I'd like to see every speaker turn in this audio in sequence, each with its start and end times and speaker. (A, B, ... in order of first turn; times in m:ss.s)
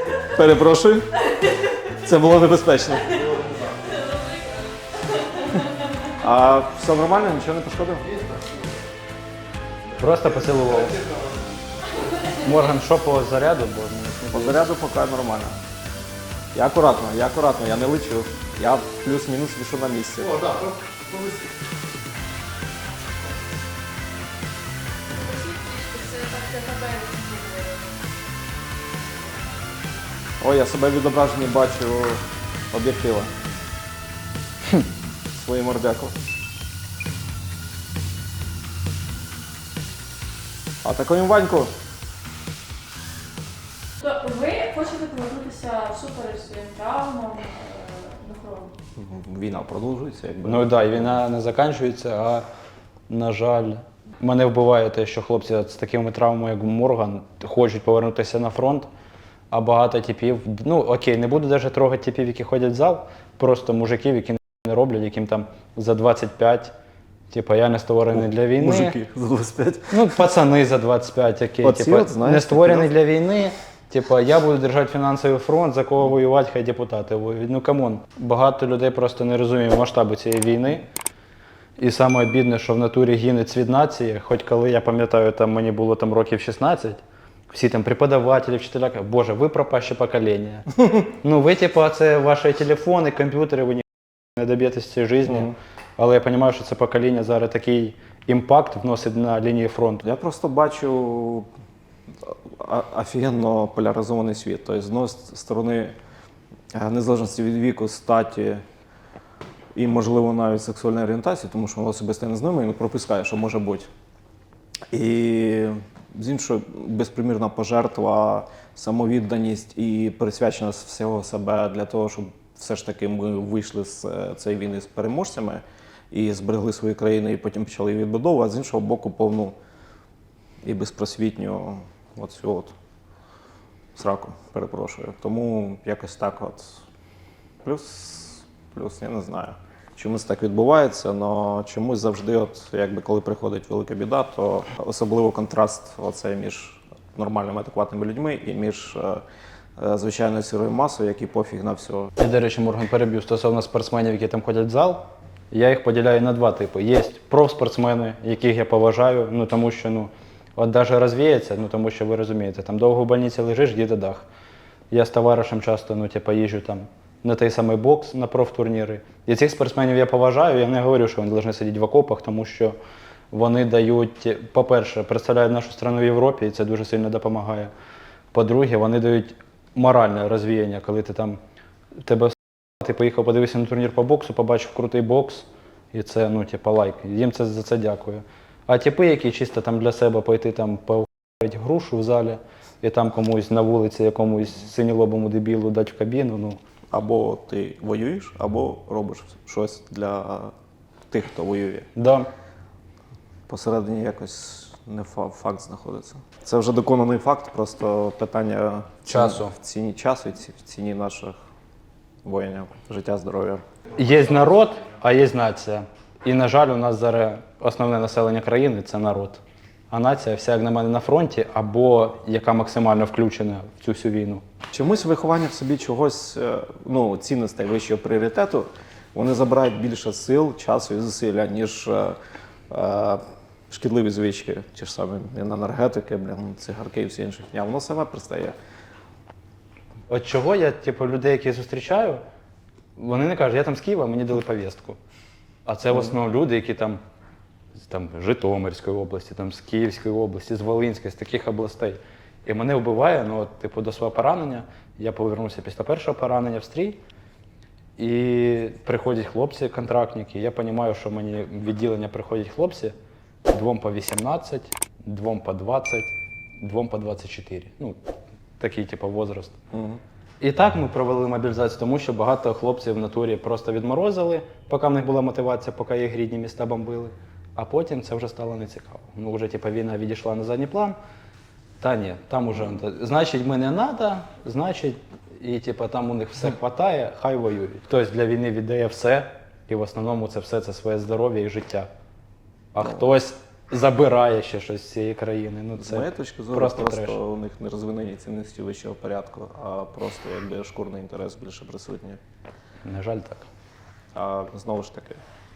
0:00.2-0:01.2 A
0:01.9-0:03.5 A
0:06.1-0:08.3 A
0:10.0-0:11.0 B
0:12.2-0:14.7 B
0:14.3-0:15.6 A
0:16.5-0:20.7 A
0:25.2-0:27.8 C
0:30.4-0:33.3 A
0:35.3-0:36.2 A
0:40.8-0:41.7 A
0:44.0-0:48.7 C
0:49.0-0:51.2 A
0:50.4-0:52.5 B
0:53.1-0:58.9 B
0:59.5-1:06.7 B
1:07.3-1:09.0 B
1:08.1-1:10.2 A
1:09.9-1:20.8 B
1:11.6-1:12.9 A
1:21.8-1:40.0 B
1:35.3-1:35.5 A
1:40.0-1:41.5 A
1:42.2-1:46.0 A
1:46.8-1:48.6 A
1:49.8-1:53.9 A
1:54.9-2:09.6 A
2:10.6-2:12.8 A
2:14.0-2:16.8 A
2:17.6-2:29.2 A
2:29.8-2:32.1 A
2:32.2-2:44.3 B
2:44.9-2:52.8 B
2:53.3-2:57.7 B
2:58.3-3:01.4 B
3:02.0-3:16.6 B
3:16.9-3:20.5 A
3:21.1-3:21.9 A
3:22.0-3:22.3 B
3:23.5-3:31.4 A
3:29.1-3:29.6 B
3:32.2-3:33.6 A
3:34.0-3:44.4 B
3:44.7-3:52.2 A
3:52.7-3:58.6 A
4:00.1-4:02.2 B
4:03.0-4:05.0 B
4:05.7-4:07.0 B
4:07.8-4:17.0 B
4:18.0-4:22.9 B
4:23.5-4:28.0 B
4:28.6-4:29.6 B
4:29.7-4:30.0 A
4:30.4-4:41.0 B
4:41.8-4:51.9 B
4:52.7-4:57.2 B
4:52.8-4:53.1 A
4:55.8-5:02.2 A
5:02.8-5:03.5 B
5:04.1-5:05.2 A